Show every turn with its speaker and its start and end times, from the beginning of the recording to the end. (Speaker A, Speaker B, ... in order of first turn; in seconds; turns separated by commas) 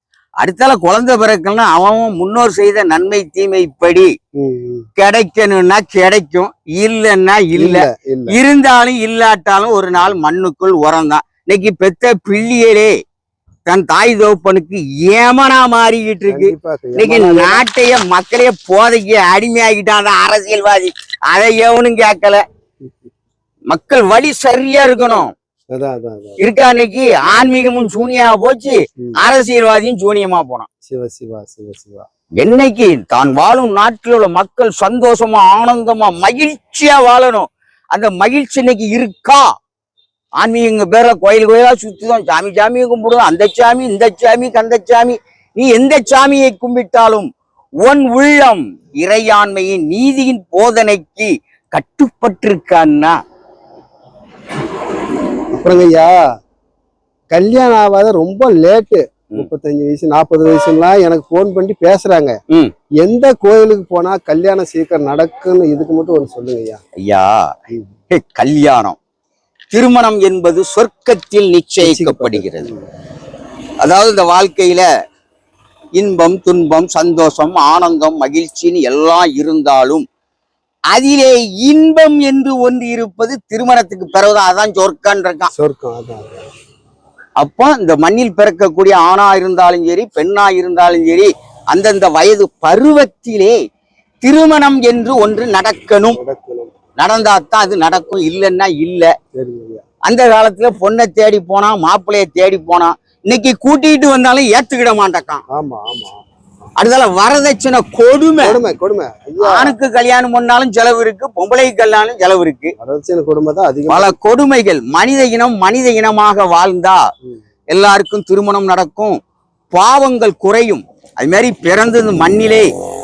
Speaker A: 0.4-4.1, Speaker B: 4.4-4.9, Speaker A: 5.0-12.9, Speaker B: 7.5-8.3, Speaker A: 13.7-22.4, Speaker B: 16.3-17.6, Speaker B: 22.8-23.1, Speaker A: 23.7-25.3, Speaker B: 25.7-26.4, Speaker A: 26.4-30.7, Speaker B: 30.9-32.1, Speaker A: 32.4-39.5, Speaker A: 40.4-47.3, Speaker A: 47.8-53.2, Speaker B: 55.5-56.3, Speaker B: 57.3-62.4, Speaker B: 63.0-66.8, Speaker A: 67.0-67.5, Speaker A: 68.1-69.0, Speaker A: 69.7-72.7, Speaker B: 71.8-72.9, Speaker A: 73.8-74.9, Speaker A: 76.0-80.0, Speaker A: 80.9-85.5, Speaker B: 85.5-86.5, Speaker A: 87.4-93.5, Speaker A: 94.2-96.2, Speaker B: 96.1-96.7, Speaker A: 97.0-99.1, Speaker B: 99.3-99.8, Speaker A: 100.1-105.4, Speaker B: 105.5-106.2, Speaker A: 106.8-108.6, Speaker B: 108.4-109.7, Speaker A: 109.4-112.7, Speaker B: 112.8-114.2, Speaker A: 113.9-117.0, Speaker A: 117.7-119.2, Speaker A: 119.7-122.7